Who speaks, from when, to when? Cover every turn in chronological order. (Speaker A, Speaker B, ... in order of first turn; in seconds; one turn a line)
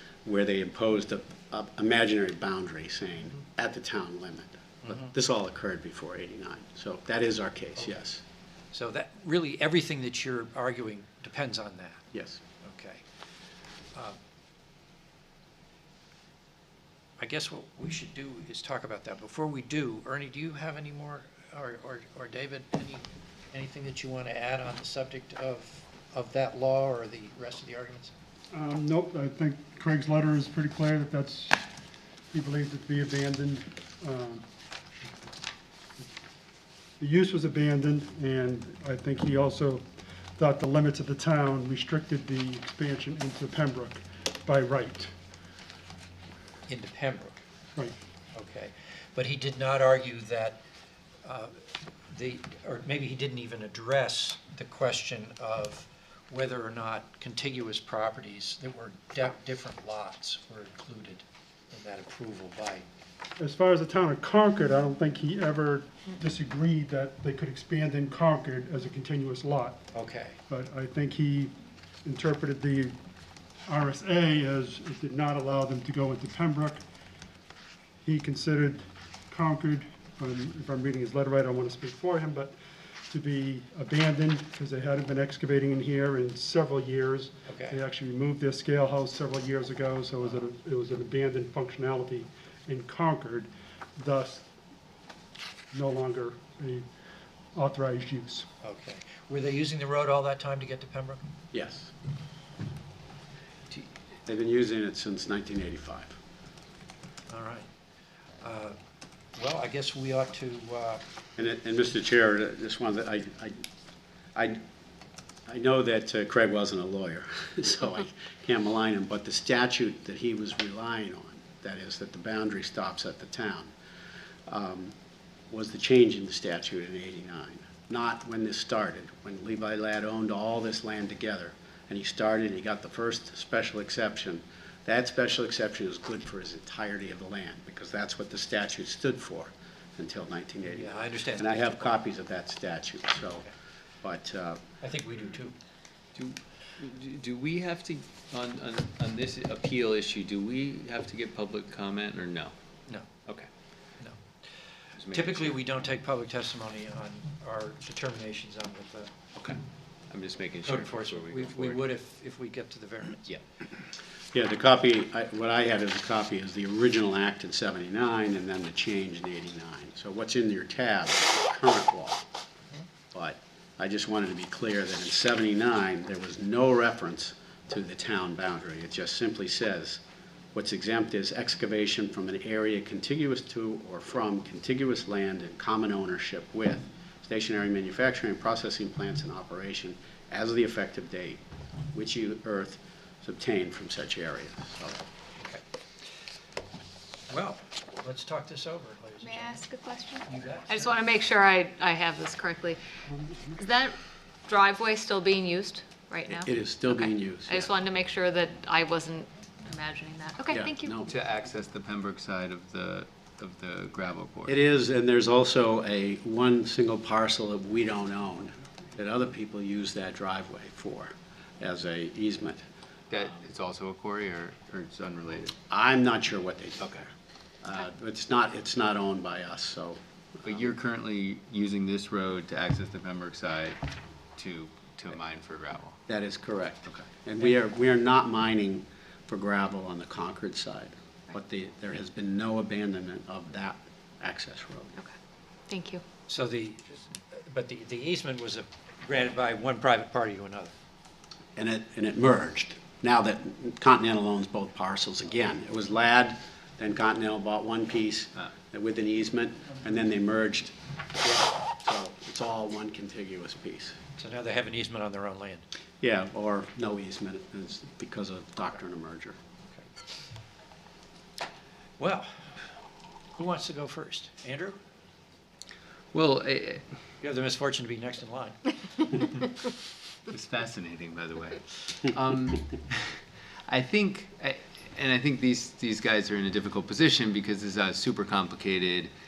Speaker A: 0.2-8.2
Speaker B: 8.7-12.1
Speaker A: 12.1-12.4
Speaker B: 12.6-13.0
Speaker B: 17.2-28.1
Speaker C: 28.5-31.6
Speaker C: 32.3-34.4
Speaker C: 37.0-39.8
Speaker C: 40.4-45.1
Speaker B: 46.7-47.4
Speaker B: 48.4-50.6
Speaker B: 51.2-51.5
Speaker B: 52.1-62.9
Speaker C: 63.4-69.8
Speaker B: 69.9-70.4
Speaker C: 70.5-71.5
Speaker C: 72.0-72.9
Speaker C: 73.7-76.8
Speaker C: 78.0-82.5
Speaker C: 83.1-94.5
Speaker B: 87.5-87.8
Speaker C: 95.7-96.8
Speaker C: 97.5-98.5
Speaker B: 98.6-101.3
Speaker A: 101.5-101.9
Speaker A: 104.3-106.2
Speaker B: 107.3-107.7
Speaker B: 108.4-108.8
Speaker B: 109.4-111.0
Speaker A: 111.4-113.6
Speaker A: 114.3-114.6
Speaker A: 115.5-123.7
Speaker A: 124.5-125.0
Speaker A: 125.5-143.5
Speaker B: 140.7-142.0
Speaker A: 144.0-144.6
Speaker B: 144.8-145.6
Speaker D: 146.2-152.5
Speaker D: 155.0-155.6
Speaker B: 155.1-159.1
Speaker D: 159.4-161.9
Speaker B: 160.7-163.2
Speaker A: 164.3-172.3
Speaker A: 173.1-180.0
Speaker A: 180.5-191.4
Speaker A: 191.9-195.0
Speaker B: 197.3-200.9
Speaker E: 199.2-202.8
Speaker E: 203.5-204.0
Speaker E: 204.5-210.9
Speaker A: 206.3-207.7
Speaker A: 210.5-211.1
Speaker D: 211.1-214.6
Speaker A: 214.5-222.6
Speaker D: 223.1-225.6
Speaker A: 225.7-226.9
Speaker A: 227.6-230.7
Speaker D: 230.4-233.8
Speaker D: 234.4-236.0
Speaker A: 236.1-244.9
Speaker E: 245.7-246.0
Speaker B: 246.3-250.7
Speaker A: 251.6-264.0
Speaker B: 264.2-265.6
Speaker A: 266.0-269.4
Speaker B: 272.0-272.3
Speaker B: 273.3-274.8
Speaker D: 276.1-276.9
Speaker B: 277.2-279.2
Speaker D: 280.3-289.1